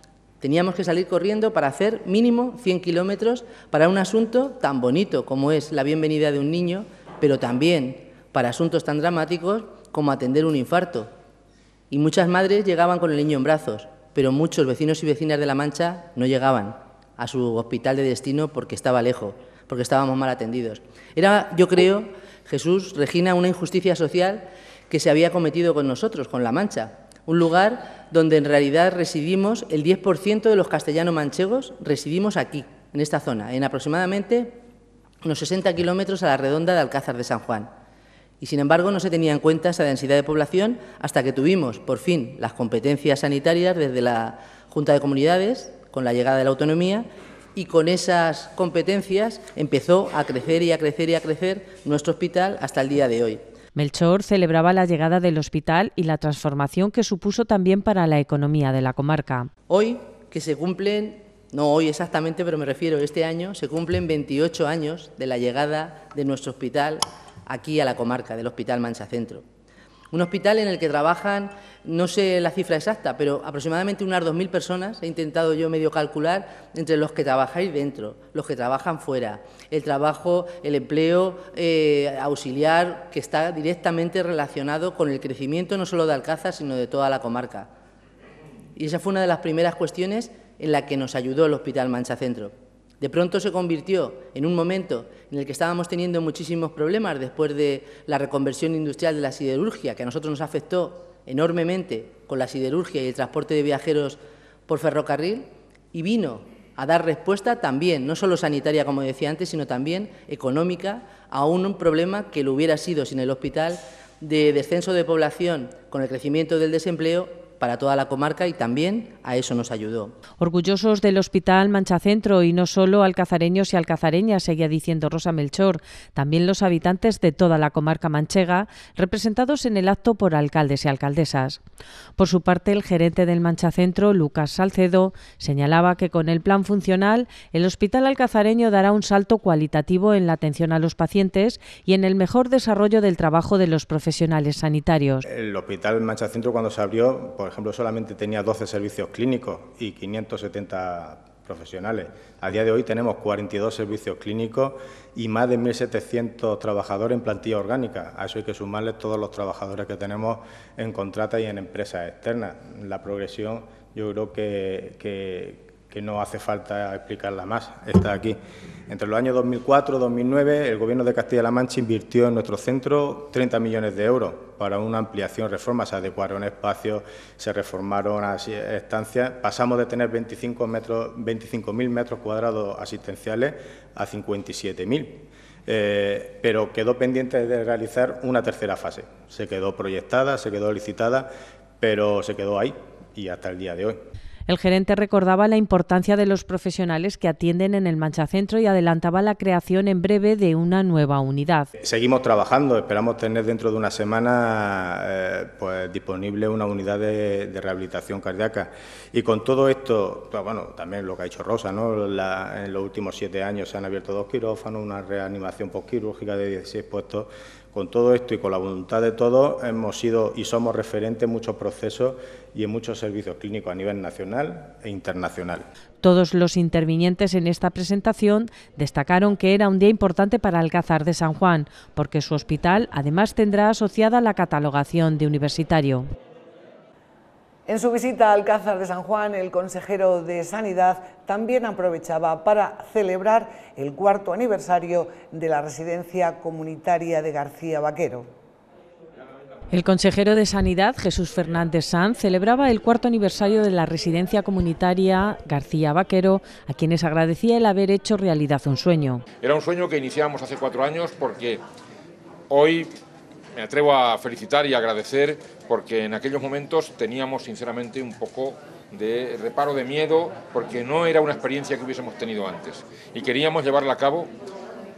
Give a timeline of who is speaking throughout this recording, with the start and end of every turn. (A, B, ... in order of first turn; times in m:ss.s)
0:00.4-0:11.1 A
0:11.9-0:34.6 A
0:35.2-0:37.7 A
0:38.4-0:53.4 A
0:53.7-0:59.5 B
0:59.7-1:09.4 A
1:10.1-1:27.7 A
1:28.8-2:00.2 A
2:00.4-2:11.6 B
2:12.2-2:25.2 B
2:25.2-3:14.0 C
3:14.5-3:21.7 B
3:21.8-3:45.7 C
3:46.0-3:56.1 B
3:57.7-4:08.3 D
4:09.7-4:19.2 B
4:19.4-4:21.6 E
4:22.5-4:22.9 E
4:23.5-4:34.3 E